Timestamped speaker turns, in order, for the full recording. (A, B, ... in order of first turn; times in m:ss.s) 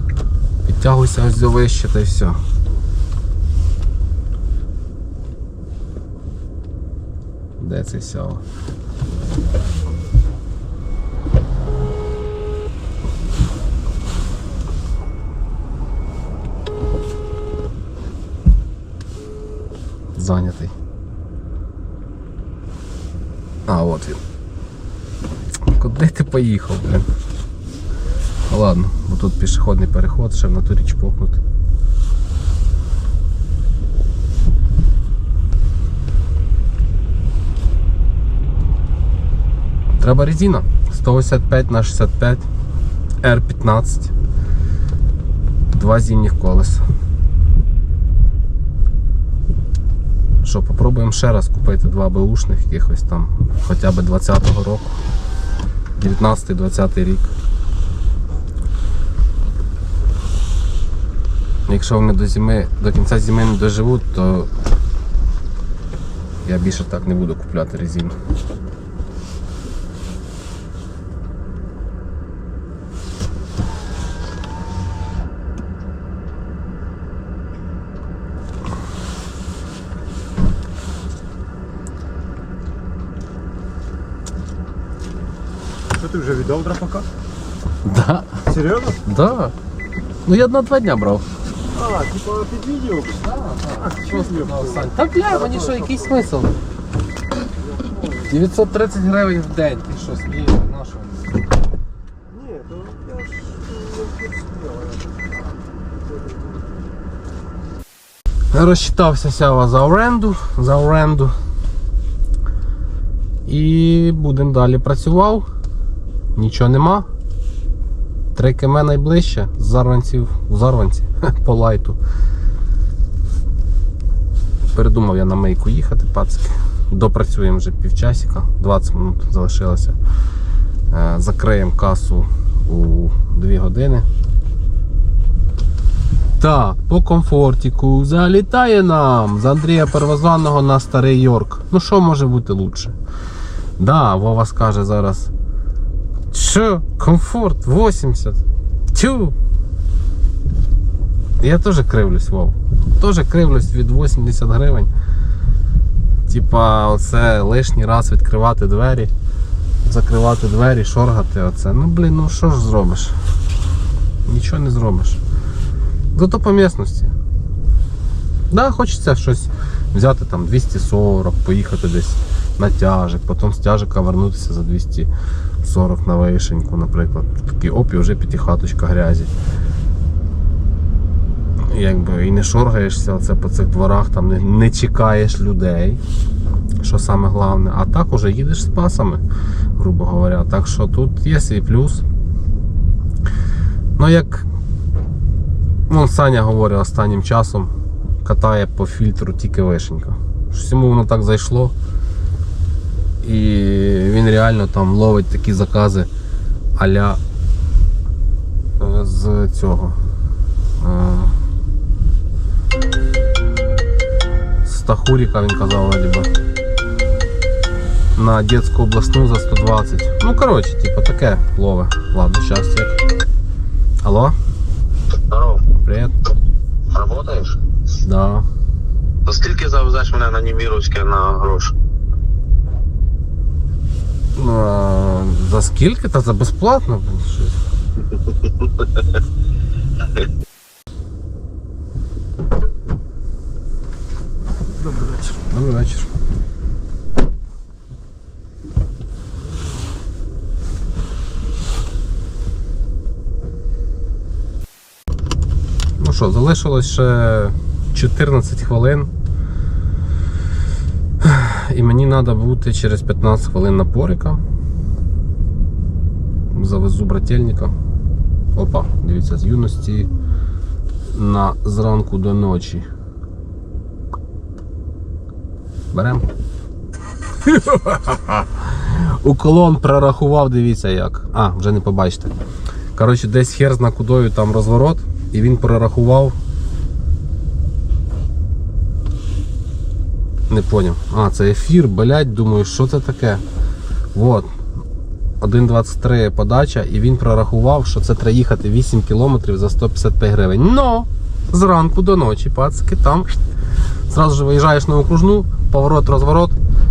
0:00.6-0:02.4 A
0:07.6-0:08.4 A
0:20.2-0:20.7 A
0:23.7-0:24.2 A
0:25.7-0:27.1 A
0:28.5-0:31.4 A
0:40.0-0:42.5 A
0:43.2-0:44.1 A
0:45.7-0:46.8 A
0:50.4-0:55.0 A
0:56.0-0:57.3 A
1:01.7-1:04.5 A
1:06.4-1:08.1 A
1:25.9-1:27.1 B
1:27.8-1:28.4 A
1:28.4-1:29.0 B
1:29.0-1:29.5 A
1:30.2-1:31.2 A
1:31.7-1:36.2 B
1:33.2-1:36.6 A
1:37.6-1:38.3 B
1:38.3-1:41.4 A
1:42.3-1:45.4 B
1:46.0-1:46.8 B
1:48.5-1:51.3 A
1:53.4-1:55.4 A
1:56.4-1:57.1 A
1:58.3-2:02.0 A
2:04.7-2:10.0 A
2:10.9-2:14.1 A
2:16.4-2:23.0 A
2:23.8-2:25.3 A
2:26.3-2:28.4 A
2:28.9-2:29.3 A
2:31.4-2:34.9 A
2:36.3-2:39.1 A
2:39.8-2:43.2 A
2:44.2-2:45.2 A
2:46.1-2:47.1 A
2:48.5-2:55.1 A
2:55.6-2:59.3 A
3:01.7-3:06.0 A
3:06.8-3:09.2 A
3:09.8-3:12.0 A
3:14.0-3:14.4 A
3:15.9-3:17.7 A
3:18.2-3:21.7 A
3:23.2-3:26.1 A
3:26.8-3:27.2 A
3:28.8-3:30.0 A
3:30.8-3:31.3 A
3:34.6-3:36.3 A
3:38.2-3:43.0 A
3:44.0-3:44.4 A
3:45.3-3:45.7 C
3:45.8-3:46.1 A
3:46.9-3:47.6 C
3:48.0-3:48.5 A
3:49.2-3:51.7 C
3:54.4-3:57.6 A
4:04.8-4:05.4 B
4:05.5-4:06.1 A
4:16.0-4:19.1 A
4:21.2-4:24.4 A
4:26.5-4:27.7 A
4:28.5-4:30.1 A
4:31.1-4:32.9 A
4:35.9-4:36.3 A
4:37.4-4:42.3 A
4:43.0-4:46.3 A
4:50.5-4:53.4 A
4:54.1-4:54.5 A
4:55.4-5:03.4 A
5:04.1-5:06.6 A